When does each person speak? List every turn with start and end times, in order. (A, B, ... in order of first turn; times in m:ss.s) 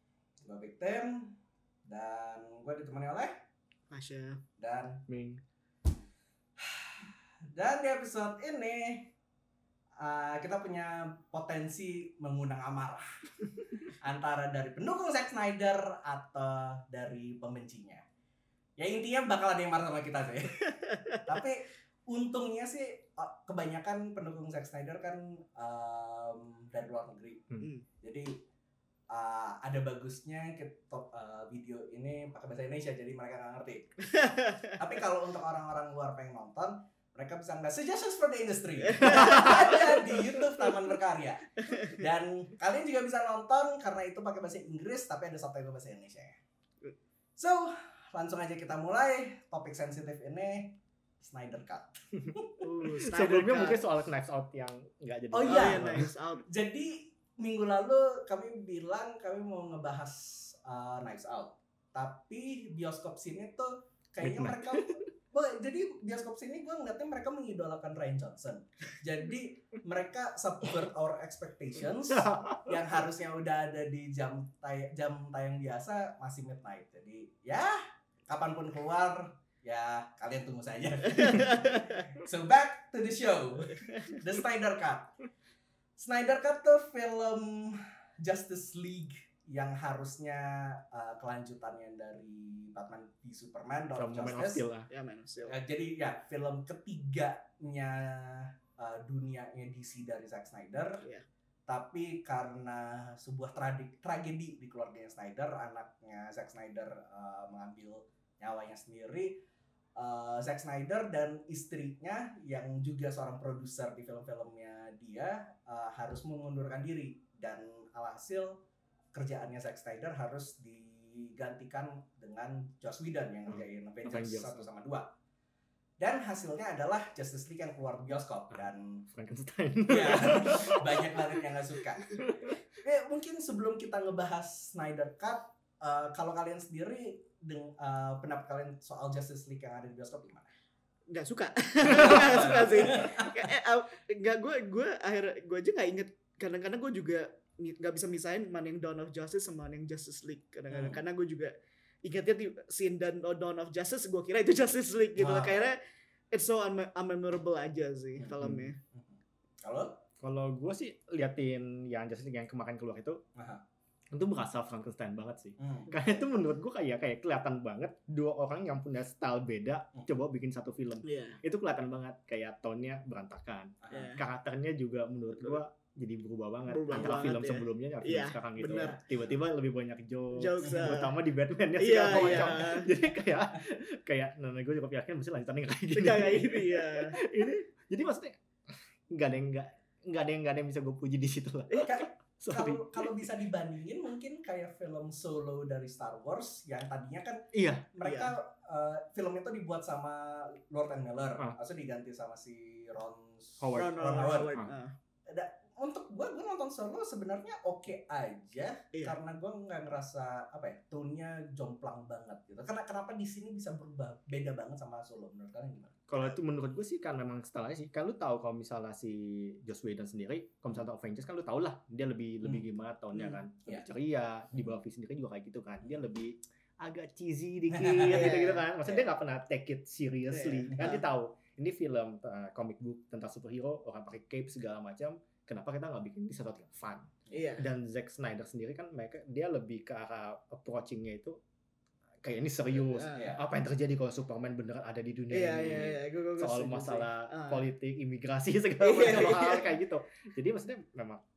0:00.4-0:03.3 A
0:03.9-0:04.4 B
0:04.6-0:05.0 A
0:05.1-0:05.4 C
0:06.6-0:09.1 A
0:10.0-0:13.1 A
0:13.9-0:18.0 A
0:18.8-0:27.4 A
0:20.9-0:21.2 B
0:27.6-0:27.8 B
0:28.0-0:28.4 A
0:29.1-0:34.1 A
0:34.0-0:34.8 B
0:34.7-0:46.4 A
0:38.8-0:40.8 B
0:39.1-0:39.6 C
0:47.4-0:52.6 A
0:52.6-0:53.8 B
0:53.0-0:56.1 C
0:55.3-0:55.8 A
0:55.5-0:56.4 B
0:56.5-1:25.1 A
1:04.2-1:04.9 C
1:12.1-1:12.7 C
1:26.0-1:34.6 A
1:34.0-1:34.9 C
1:34.9-1:35.6 B
1:35.4-1:41.0 A
1:41.7-1:49.4 A
1:50.0-1:58.6 A
1:59.1-2:05.1 A
2:03.5-2:04.6 C
2:06.0-2:09.0 A
2:08.5-2:11.4 C
2:09.9-2:12.1 A
2:12.1-2:12.6 C
2:12.8-2:20.5 A
2:21.1-2:35.8 B
2:21.8-2:23.5 A
2:30.7-2:31.0 A
2:35.2-2:35.7 A
2:36.3-2:38.8 B
2:38.4-2:38.7 C
2:38.9-2:40.0 A
2:40.2-2:43.2 C
2:43.4-2:43.6 A
2:44.1-3:13.2 C
2:45.6-2:46.1 A
2:51.0-2:51.4 B
2:53.8-2:54.2 A
2:53.9-2:54.2 B
2:56.7-2:59.1 B
2:58.7-2:59.0 A
3:00.4-3:01.2 B
3:01.8-3:02.9 B
3:02.1-3:02.7 A
3:05.9-3:07.2 B
3:11.8-3:24.5 A
3:17.5-3:17.9 C
3:18.0-3:18.3 B
3:23.6-3:24.7 C
3:23.8-3:24.9 B
3:25.3-3:36.4 A
3:36.1-4:01.4 C
3:43.1-3:43.4 B
3:47.7-3:48.3 A
3:48.1-3:49.0 B
3:50.3-3:51.0 B
3:57.3-3:57.7 B
4:02.2-4:11.2 C
4:02.9-4:03.3 B
4:03.0-4:03.4 A
4:05.3-4:07.6 B
4:08.8-4:09.7 B